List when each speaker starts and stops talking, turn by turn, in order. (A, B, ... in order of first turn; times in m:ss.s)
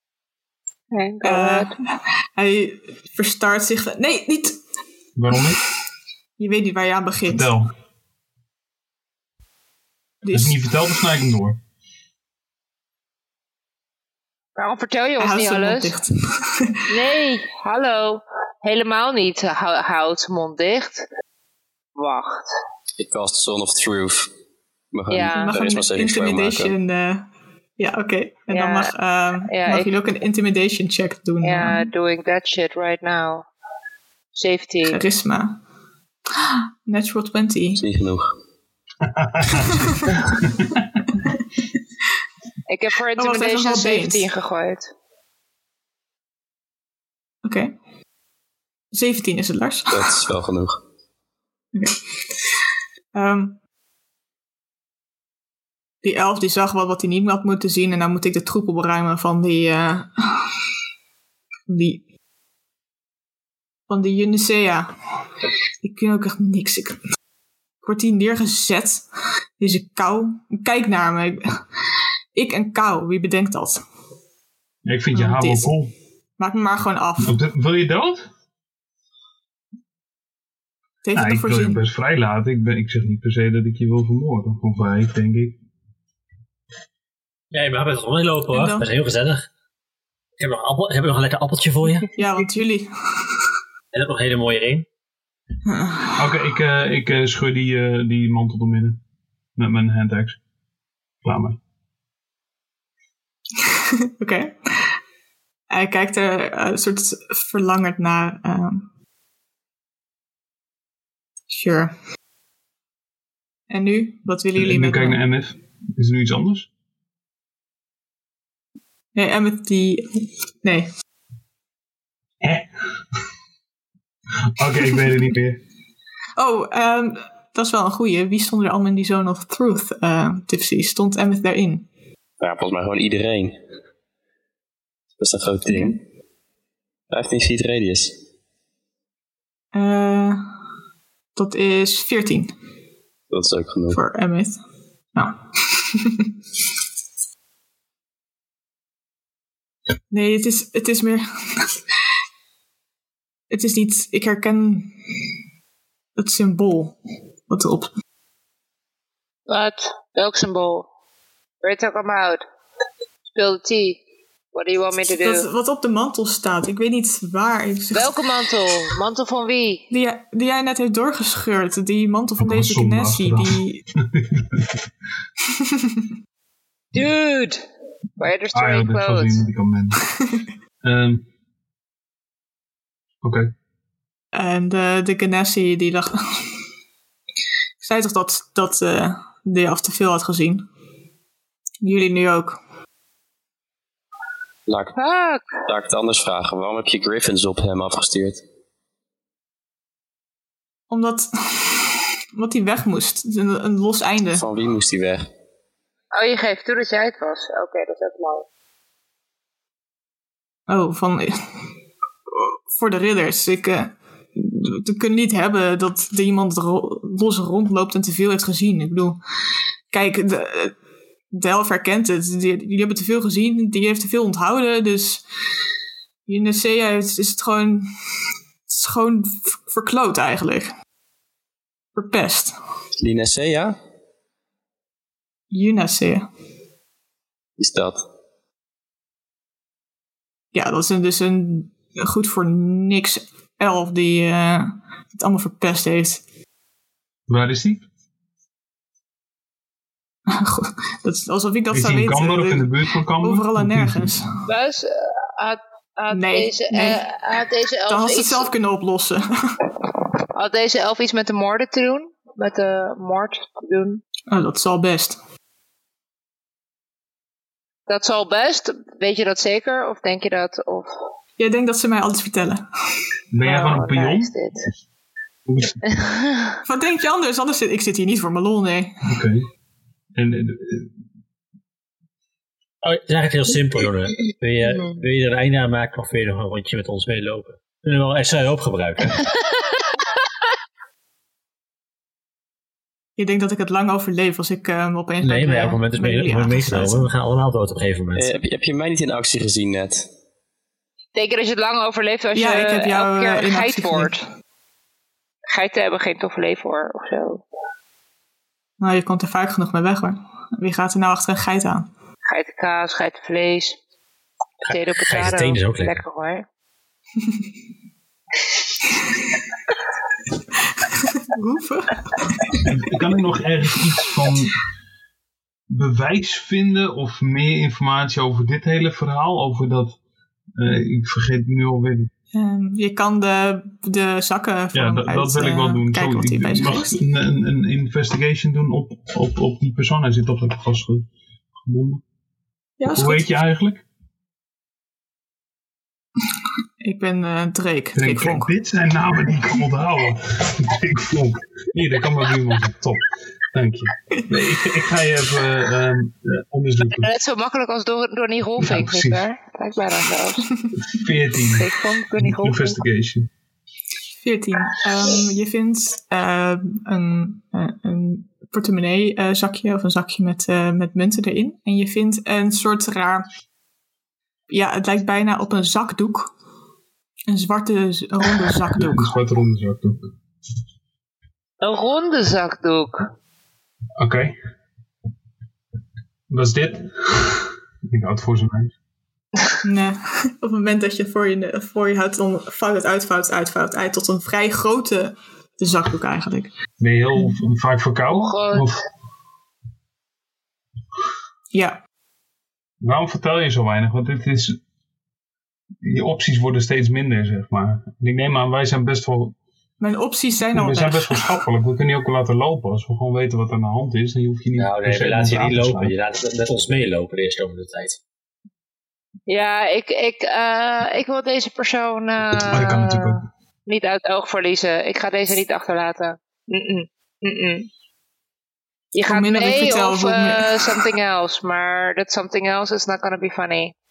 0:00.9-0:01.7 A
0:01.2-0:04.6 B
0:05.2-0:05.6 C
0:06.4-0:07.5 B
0:07.2-0:07.7 C
0:10.2-0:10.6 B
0:10.3-0:11.6 C
0:14.6-0:15.9 A
0:15.2-0:16.8 B
0:16.9-0:21.0 A
0:22.0-0:22.5 A
0:23.0-0:24.3 D
0:24.9-0:26.7 D
0:25.1-0:25.5 A
0:25.3-0:27.3 B
0:27.8-0:31.9 B
0:28.5-0:29.9 A
0:31.4-0:33.5 A
0:34.3-0:35.0 A
0:34.9-0:35.6 B
0:36.4-0:37.8 B
0:37.8-0:38.3 D
0:39.0-0:41.1 C
0:39.7-0:40.2 B
0:42.7-0:44.9 A
0:43.2-0:44.2 B
0:47.4-0:47.7 B
0:48.9-0:50.2 B
0:49.9-0:50.8 D
0:53.1-0:53.6 B
0:56.0-1:00.5 B
1:01.7-1:02.0 B
1:03.9-1:05.0 B
1:05.8-1:07.0 B
1:07.8-1:09.0 B
1:09.6-1:11.6 B
1:12.3-1:13.8 B
1:14.8-1:15.9 C
1:15.1-1:15.7 B
1:16.4-1:17.4 B
1:17.2-1:18.3 C
1:21.0-1:21.8 B
1:21.1-1:25.6 C
1:27.5-1:29.5 E
1:28.5-1:28.9 B
1:30.4-1:32.2 E
1:32.2-1:33.2 B
1:33.9-1:34.9 E
1:35.6-1:36.4 B
1:36.2-1:39.0 C
1:39.6-1:40.4 C
1:41.2-1:41.6 C
1:43.6-1:45.0 B
1:45.7-1:48.9 B
1:51.5-1:51.9 B
1:53.7-1:55.2 B
1:54.6-1:56.7 C
1:59.1-2:00.9 B
2:02.4-2:02.8 C
2:04.6-2:05.6 C
2:06.4-2:11.9 B
2:12.4-2:13.6 D
2:15.2-2:16.0 D
2:17.1-2:18.2 D
2:19.7-2:20.4 B
2:21.3-2:22.5 B
2:23.3-2:24.0 D
2:23.9-2:24.6 B
2:25.1-2:26.3 B
2:30.1-2:31.8 B
2:33.5-2:35.0 B
2:36.2-2:37.0 B
2:37.5-2:37.9 B
2:39.5-2:40.9 A
2:41.6-2:42.4 A
2:43.3-2:44.0 A
2:44.5-2:45.5 A
2:45.2-2:48.2 B
2:47.9-2:49.9 A
2:49.9-2:53.8 B
2:52.4-2:54.8 C
2:56.9-2:57.6 A
2:58.2-2:59.4 A
2:58.5-3:00.3 C
3:00.8-3:01.2 C
3:03.2-3:03.5 C
3:04.3-3:06.4 B
3:07.8-3:10.7 B
3:11.8-3:12.6 B
3:14.7-3:15.0 D
3:15.0-3:15.6 A
3:15.6-3:18.4 D
3:20.9-3:24.4 B
3:24.3-3:25.3 D
3:26.1-3:28.4 A
3:30.7-3:31.4 B
3:32.3-3:39.2 B
3:39.9-3:40.7 B
3:41.3-3:45.2 B
3:46.3-3:47.9 B
3:48.7-3:50.7 B
3:51.9-3:52.6 B
3:53.0-3:53.8 D
3:55.5-3:56.3 B
3:57.6-3:58.0 D
4:00.5-4:06.2 B
4:07.3-4:07.8 C
4:10.3-4:14.3 B
4:11.7-4:14.2 C
4:14.4-4:18.5 A
4:16.1-4:17.0 B
4:17.9-4:19.6 B
4:20.3-4:24.0 A
4:24.3-4:25.2 B
4:27.9-4:31.0 A
4:31.4-4:32.6 B
4:33.3-4:34.3 C
4:33.4-4:34.6 A
4:35.4-4:35.8 C
4:35.9-4:36.6 A
4:36.6-4:39.0 B
4:39.0-4:39.5 C
4:40.1-4:40.9 C
4:42.8-4:49.2 E
4:44.6-4:45.0 A
4:53.2-4:57.1 B
4:55.2-4:58.3 E
4:58.1-5:00.1 D
5:01.1-5:04.2 A
5:02.3-5:04.1 B
5:05.5-5:07.4 A
5:08.8-5:11.9 B
5:12.2-5:13.8 A
5:14.6-5:16.0 E
5:14.6-5:16.4 A
5:21.0-5:22.7 B
5:22.6-5:24.5 C
5:25.7-5:30.0 C
5:30.6-5:32.1 C
5:32.3-5:37.0 B
5:34.7-5:41.1 C
5:41.6-5:42.0 C
5:42.8-5:43.3 B
5:42.9-5:43.8 C
5:46.8-5:48.5 B
5:47.9-5:57.1 C
5:56.9-6:00.5 A
5:58.6-5:59.2 C
6:00.8-6:03.3 C
6:01.4-6:02.8 A
6:04.2-6:13.3 B
6:14.5-6:16.3 B
6:17.3-6:19.1 B
6:18.7-6:20.1 C
6:21.6-6:23.1 A
6:24.0-6:24.4 C
6:26.3-6:28.7 C
6:29.6-6:36.5 B
6:36.8-6:38.8 C
6:38.2-6:38.7 A
6:41.5-6:41.8 B
6:42.8-6:44.6 C
6:45.8-6:49.4 C
6:49.8-6:51.4 B
6:50.5-6:55.9 C
6:54.6-6:58.0 E
6:59.3-7:07.7 A
7:02.3-7:03.2 C
7:08.9-7:13.7 A
7:09.0-7:10.9 B